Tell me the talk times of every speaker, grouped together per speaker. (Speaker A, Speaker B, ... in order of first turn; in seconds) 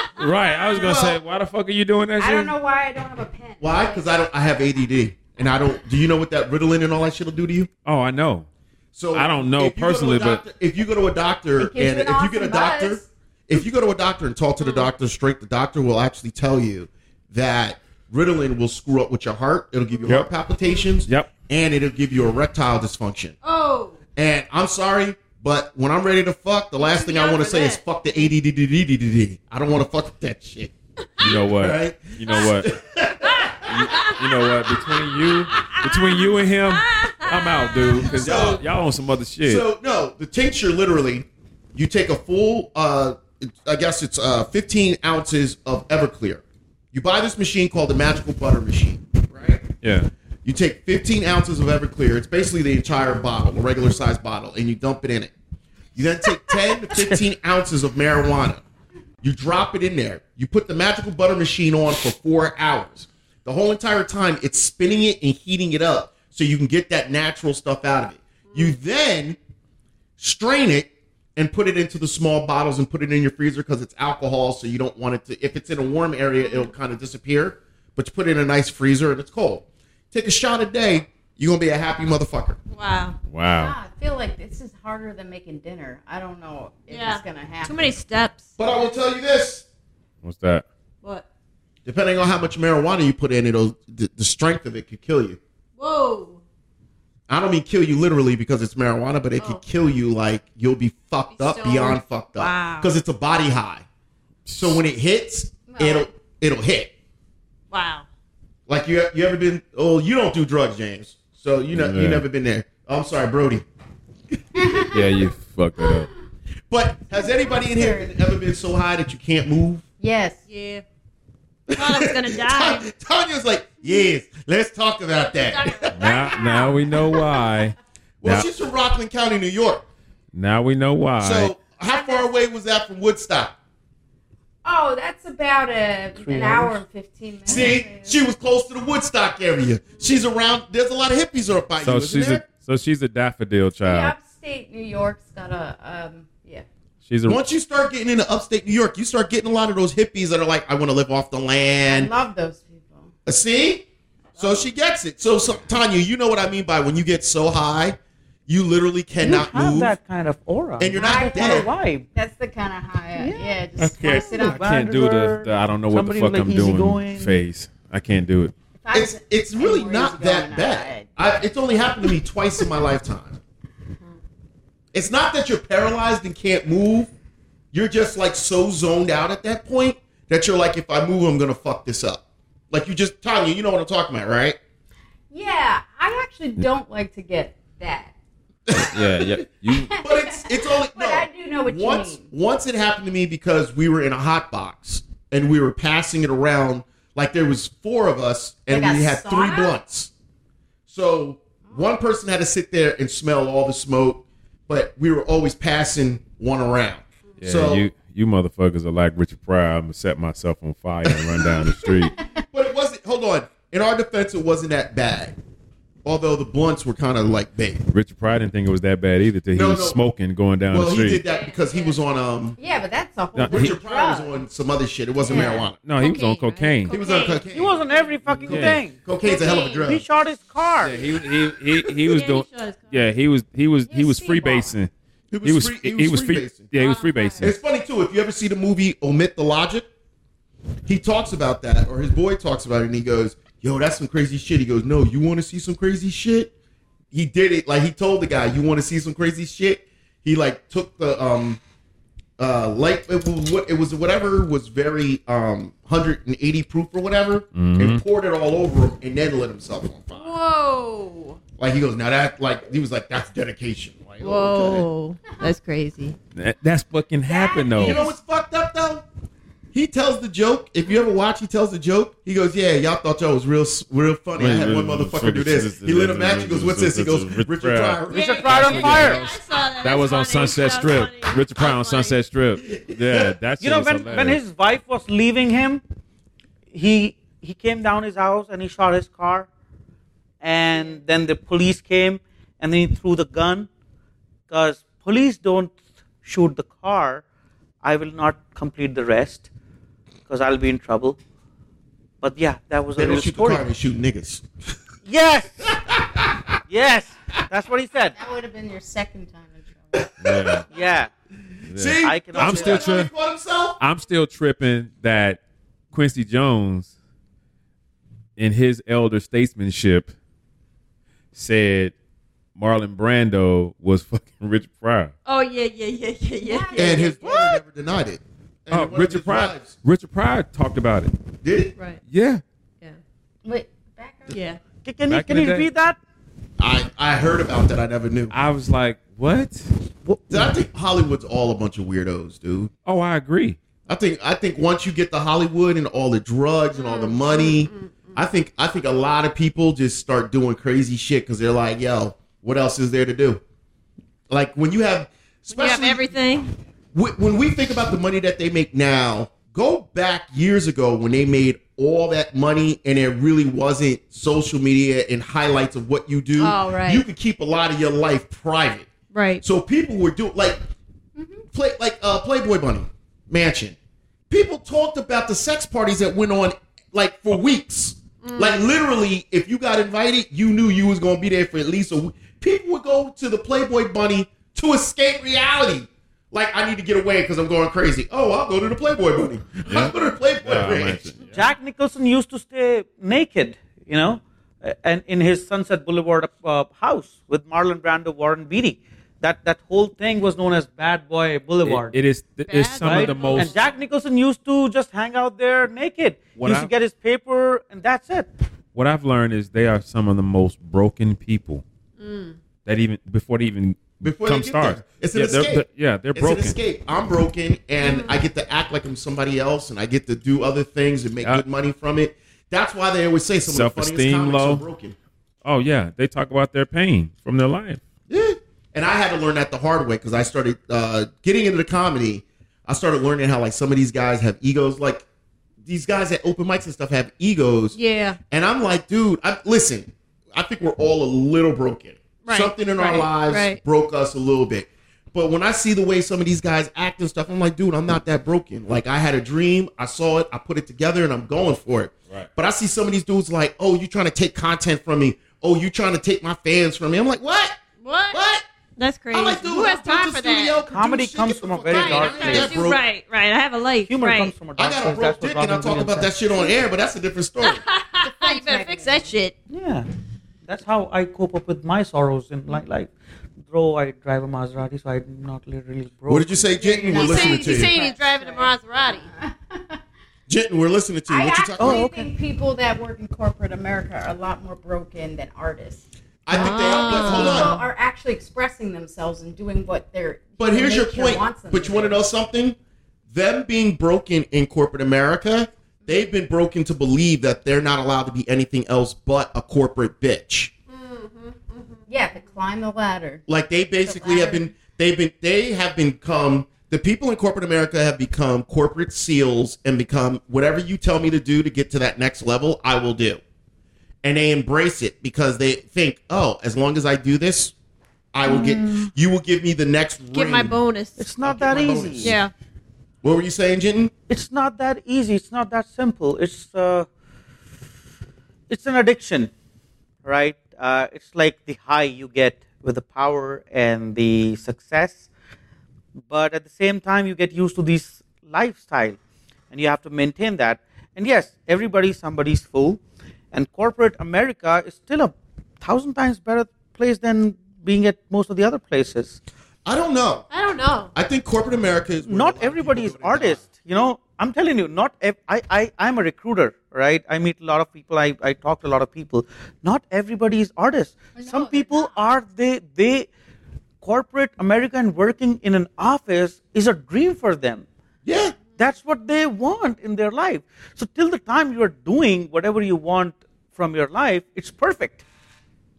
Speaker A: 0.2-2.5, 7.8-8.5, 9.1-10.4, 20.1-20.3, 21.1-21.3, 31.2-32.7, 33.6-39.7, 49.8-50.1, 83.3-83.8, 90.2-90.7, 104.5-104.8, 111.7-112.2, 114.9-116.1, 125.9-128.5, 130.3-131.6, 141.8-144.2, 147.1-147.4, 163.8-168.5, 188.8-190.0, 207.4-212.2, 217.9-221.2, 223.3-223.7, 225.8-226.9, 228.4-228.8, 230.8-234.9, 235.4-237.6, 257.6-258.0, 266.4-268.0, 274.4-284.4, 310.2-310.7, 311.7-313.1, 313.8-315.4, 315.9-316.9, 318.4-320.1, 321.3-321.9, 322.6-325.1, 328.7-331.1, 332.1-332.4, 335.1-335.7, 338.3-339.7, 342.9-343.6, 389.7-391.5, 401.6-403.6, 406.4-406.7, 408.8-411.6, 412.6-416.6, 423.4-424.6, 425.4-427.8
Speaker B: 0.8-1.2, 3.6-7.7, 8.9-23.4, 24.2-34.1, 38.1-38.6, 39.4-49.6, 50.5-55.3, 56.0-58.6, 59.2-69.4, 70.2-82.6, 88.6-89.7, 91.8-95.4, 97.3-103.8, 104.6-106.9, 108.7-113.6, 116.7-119.8, 121.7-126.0, 128.2-129.8, 131.2-133.6, 137.5-142.4, 147.3-152.1, 153.3-153.8, 154.4-160.0, 160.8-161.7, 168.9-173.4, 174.9-177.1, 177.7-184.6, 188.7-200.1, 200.9-207.8, 211.1-212.0, 212.5-215.4, 216.1-217.8, 219.5-220.0, 220.7-222.6, 223.5-225.8, 226.9-227.8, 228.4-230.0, 235.3-236.7, 237.4-239.9, 240.9-246.5, 247.1-251.6, 252.4-260.4, 261.6-264.9, 267.8-269.0, 269.7-278.8, 282.8-283.4, 303.0-304.4, 305.7-306.5, 309.9-310.6, 311.7-313.8, 326.8-329.8, 331.4-331.7, 336.6-338.3, 340.3-342.7, 343.9-353.4, 354.3-356.1, 356.9-368.9, 369.4-370.6, 371.5-373.8, 374.3-391.1, 414.0-425.0, 428.1-435.1, 435.6-437.8, 438.3-458.4, 459.1-462.8, 464.6-467.6, 476.1-477.7, 480.3-481.9, 486.3-487.6, 490.4-492.6, 493.1-500.5, 503.3-513.2, 514.0-517.5, 518.1-520.6, 521.2-522.2, 523.0-523.9, 549.6-550.3, 551.0-553.5, 568.0-568.4
Speaker C: 2.2-4.1, 11.6-13.1, 83.5-88.0, 105.7-106.1, 114.6-115.0, 117.1-118.1, 120.0-120.4, 134.6-138.2, 143.8-146.7, 151.9-153.1, 160.9-164.7, 168.8-171.2, 185.3-188.1, 188.7-189.0, 189.7-192.3, 198.7-199.7, 212.1-212.4, 222.6-224.4, 225.3-225.7, 229.2-229.9, 233.9-234.8, 267.3-268.2, 308.1-310.1, 326.4-327.6, 333.4-334.4, 371.2-371.4, 468.0-469.1, 476.6-479.8, 481.1-485.8, 486.4-492.0, 501.9-503.2, 503.8-504.5, 561.1-562.1
Speaker D: 14.6-14.9, 23.4-24.0, 26.8-27.8, 33.2-34.3, 35.5-38.5, 82.7-83.2, 86.9-88.5, 95.8-96.4, 99.4-99.6, 101.3-102.9, 107.7-108.1, 120.5-120.8, 121.7-122.9, 125.4-126.9, 221.2-222.0, 225.3-227.5, 232.1-233.1, 236.8-237.5, 260.1-261.4, 264.2-266.2, 278.1-282.2, 325.3-327.5, 334.3-334.6, 346.7-348.2, 355.5-356.5, 366.4-367.1, 369.1-369.4, 378.2-378.6, 402.5-403.8, 412.0-412.4, 417.8-418.1, 437.7-438.2, 442.2-443.6, 457.8-458.2, 458.8-460.7, 461.7-464.4, 467.4-469.4, 476.8-479.1, 486.3-487.6, 500.7-502.1, 520.1-521.1, 522.0-522.3, 550.3-550.9
Speaker E: 136.2-136.8, 159.2-162.1, 163.2-167.3, 227.5-229.0, 229.8-231.0, 278.1-279.2, 283.6-285.8, 286.7-289.5, 290.4-293.7, 294.5-297.2, 297.8-299.5, 300.3-301.2, 302.2-303.7, 305.1-305.7, 306.7-308.1, 310.7-311.1, 312.0-312.9, 334.8-336.0, 340.1-340.5, 391.3-402.0, 402.8-408.3, 460.7-462.7, 463.9-466.1, 469.5-469.9, 470.4-472.9, 473.5-476.5, 481.6-482.1, 518.3-518.5, 521.0-522.2, 524.1-526.9, 528.5-529.3, 530.0-535.1, 536.1-539.0, 539.5-542.8, 543.3-549.2, 552.0-563.1, 563.8-567.7, 568.6-575.0